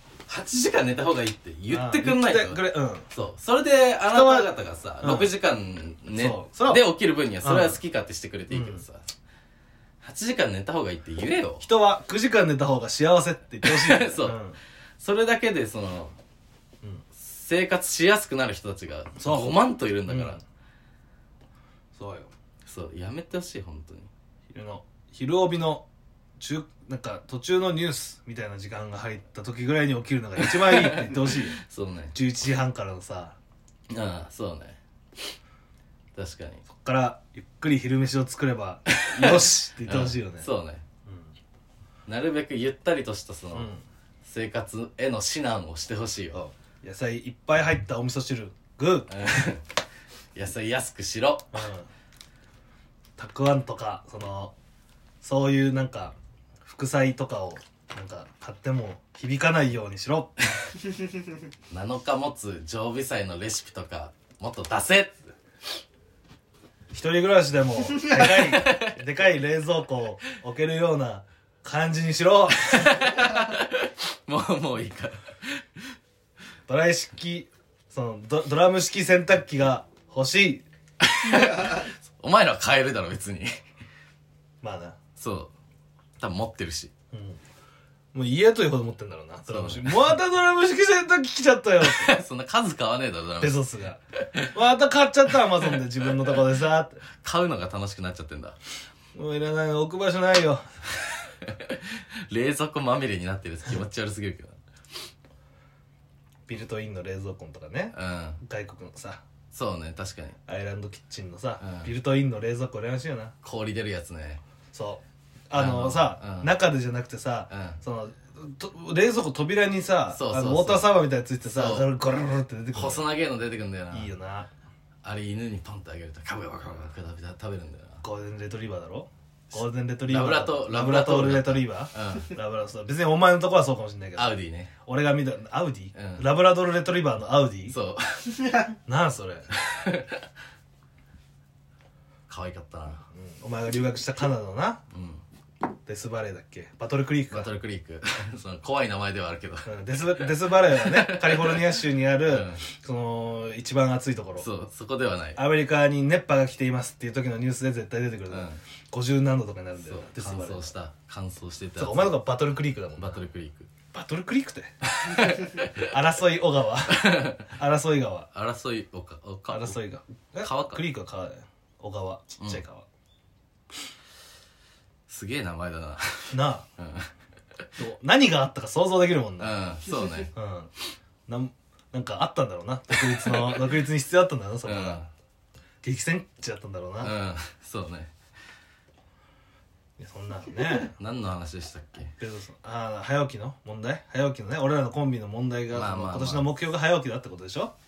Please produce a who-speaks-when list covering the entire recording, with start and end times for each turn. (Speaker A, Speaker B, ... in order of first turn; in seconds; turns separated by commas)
Speaker A: 0.3-9.1, Speaker B: 1.7-3.1, Speaker B: 4.1-5.3, Speaker B: 6.1-6.8, Speaker B: 7.4-7.8, Speaker B: 8.5-8.8, Speaker A: 10.0-11.7, Speaker B: 11.6-14.6, Speaker A: 13.6-14.4, Speaker A: 15.0-16.1, Speaker A: 17.1-20.4, Speaker B: 19.2-20.4, Speaker B: 21.9-22.3, Speaker A: 22.7-24.1, Speaker B: 24.5-25.9, Speaker B: 26.4-31.6, Speaker A: 30.4-32.1, Speaker B: 32.1-33.4, Speaker A: 33.9-34.8, Speaker A: 36.1-36.6, Speaker B: 36.7-40.5, Speaker A: 38.9-40.8, Speaker B: 41.1-41.3, Speaker A: 42.1-43.7, Speaker B: 43.5-43.8, Speaker A: 44.2-46.5, Speaker B: 46.8-49.5, Speaker A: 49.1-49.6, Speaker A: 50.4-51.7, Speaker B: 51.5-51.9, Speaker B: 53.2-54.5, Speaker B: 55.2-60.4, Speaker A: 61.7-65.3, Speaker B: 66.9-73.2, Speaker A: 68.2-69.0, Speaker A: 72.7-75.8, Speaker B: 76.7-80.7, Speaker A: 81.0-83.6, Speaker B: 84.6-85.0, Speaker A: 85.2-85.5, Speaker A: 86.2-86.9, Speaker B: 87.1-87.4, Speaker B: 88.1-92.2, Speaker A: 89.5-90.1, Speaker A: 91.8-93.6, Speaker B: 93.4-94.0, Speaker A: 94.2-94.5, Speaker B: 94.5-97.0, Speaker A: 97.2-98.6, Speaker B: 99.1-100.6, Speaker A: 101.4-104.6, Speaker B: 106.5-109.2, Speaker A: 107.9-108.4, Speaker A: 109.5-110.4, Speaker B: 110.5-113.3, Speaker A: 111.6-111.9, Speaker A: 113.4-114.4, Speaker B: 114.7-123.0, Speaker A: 115.5-116.5, Speaker A: 117.5-117.8, Speaker A: 120.1-121.0, Speaker A: 121.5-121.9, Speaker A: 122.7-124.1, Speaker B: 123.9-124.5, Speaker A: 125.0-128.0, Speaker B: 128.0-137.8, Speaker A: 130.1-132.3, Speaker A: 134.2-134.7, Speaker A: 135.9-136.3, Speaker A: 137.7-138.6, Speaker B: 138.9-139.5, Speaker A: 139.6-140.2, Speaker A: 142.3-143.1, Speaker B: 143.1-144.8, Speaker A: 144.9-145.2, Speaker B: 145.9-147.5, Speaker A: 147.3-152.6, Speaker B: 149.7-154.5, Speaker A: 154.4-155.4, Speaker B: 155.4-160.8, Speaker A: 158.3-158.6, Speaker A: 159.8-162.2, Speaker B: 161.8-163.2, Speaker A: 163.0-163.7, Speaker B: 163.9-168.3, Speaker A: 164.9-165.9, Speaker A: 166.9-167.5, Speaker A: 168.3-169.8, Speaker B: 169.5-172.9, Speaker A: 170.4-170.8, Speaker A: 175.1-177.1, Speaker B: 176.3-176.7, Speaker B: 177.8-179.6, Speaker A: 179.4-180.3, Speaker B: 180.3-180.7, Speaker B: 181.3-185.0, Speaker A: 183.0-183.7, Speaker A: 184.6-185.1, Speaker B: 185.8-187.2, Speaker A: 187.0-188.1, Speaker B: 190.0-190.9, Speaker A: 190.8-192.1, Speaker B: 192.2-197.7, Speaker A: 195.7-196.5